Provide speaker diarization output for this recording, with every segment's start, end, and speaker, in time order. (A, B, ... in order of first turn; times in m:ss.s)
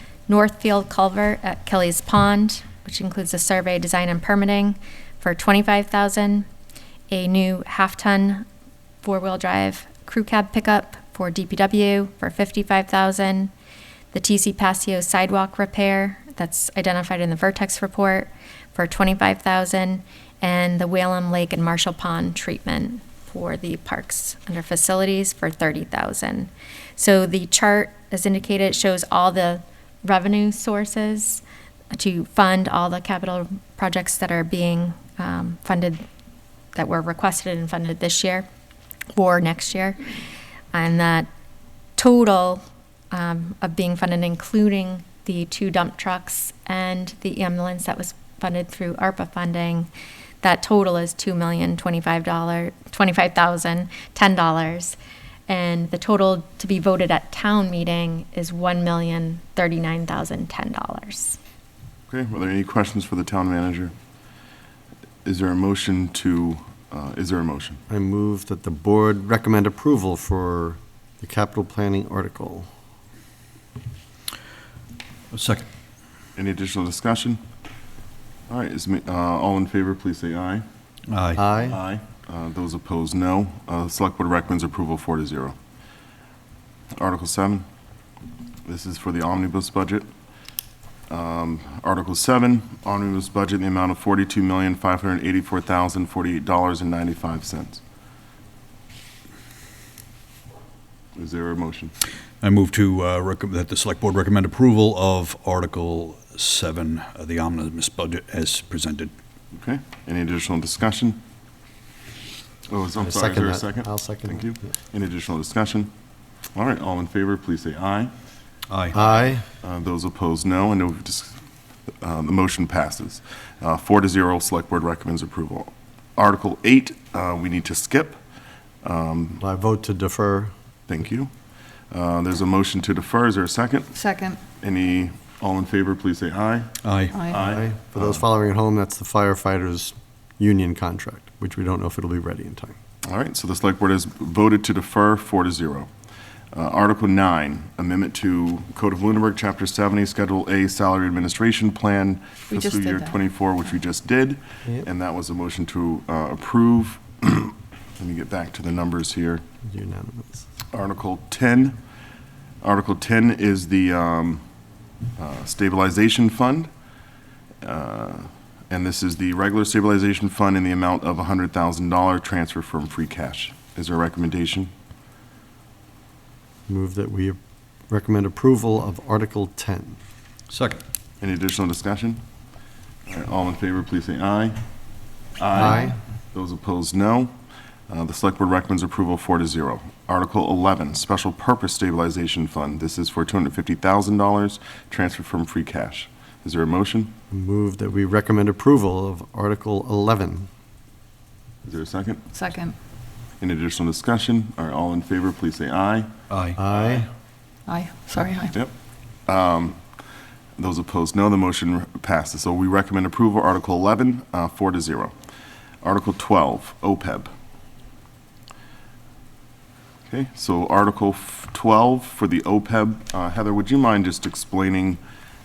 0:00.3-0:06.5 A
0:07.1-0:08.4 A
0:09.0-0:13.5 A
0:14.1-0:36.0 A
0:36.7-0:38.4 A
0:39.1-0:40.1 A
0:40.7-0:41.3 A
0:42.0-0:49.9 A
0:50.4-0:55.0 A
0:55.5-1:01.4 A
1:02.1-1:03.9 B
1:05.2-1:07.8 B
1:07.9-1:12.7 C
1:15.3-1:15.7 D
1:16.4-1:17.4 B
1:18.5-1:20.6 B
1:21.1-1:21.5 D
1:21.3-1:21.8 C
1:21.6-1:25.5 B
1:26.9-1:27.6 B
1:28.6-1:30.1 B
1:31.1-1:37.8 B
1:41.2-1:41.9 B
1:42.4-1:49.1 D
1:49.5-1:51.2 B
1:52.7-1:55.9 B
1:53.0-1:54.6 C
1:56.5-1:58.1 B
1:58.7-1:58.9 D
1:58.9-1:59.4 C
1:59.6-2:01.4 B
2:02.0-2:08.2 B
2:08.8-2:09.4 B
2:09.4-2:10.5 C
2:10.9-2:11.3 B
2:11.9-2:13.9 B
2:13.9-2:14.4 E
2:14.6-2:16.7 B
2:16.8-2:17.2 D
2:17.1-2:17.4 E
2:17.3-2:18.2 B
2:17.3-2:22.8 C
2:23.0-2:25.9 B
2:26.5-2:39.4 B
2:32.5-2:33.2 E
2:39.6-2:40.4 C
2:40.7-2:41.8 B
2:42.6-2:44.4 B
2:45.2-2:46.7 B
2:47.6-2:54.7 B
2:56.7-2:57.4 C
2:57.9-3:00.0 C
3:00.5-3:00.8 D
3:01.2-3:02.2 B
3:03.1-3:04.6 B
3:05.4-3:07.3 B
3:05.5-3:06.0 C
3:07.9-3:17.1 B
3:17.3-3:20.5 C
3:21.6-3:22.2 B
3:22.3-3:22.8 E
3:23.4-3:26.1 B
3:26.3-3:26.6 D
3:26.6-3:27.1 C
3:26.7-3:27.1 B
3:27.7-3:28.6 E
3:29.3-3:29.8 B
3:30.6-3:35.1 B
3:35.8-3:37.3 B
3:40.1-3:45.0 B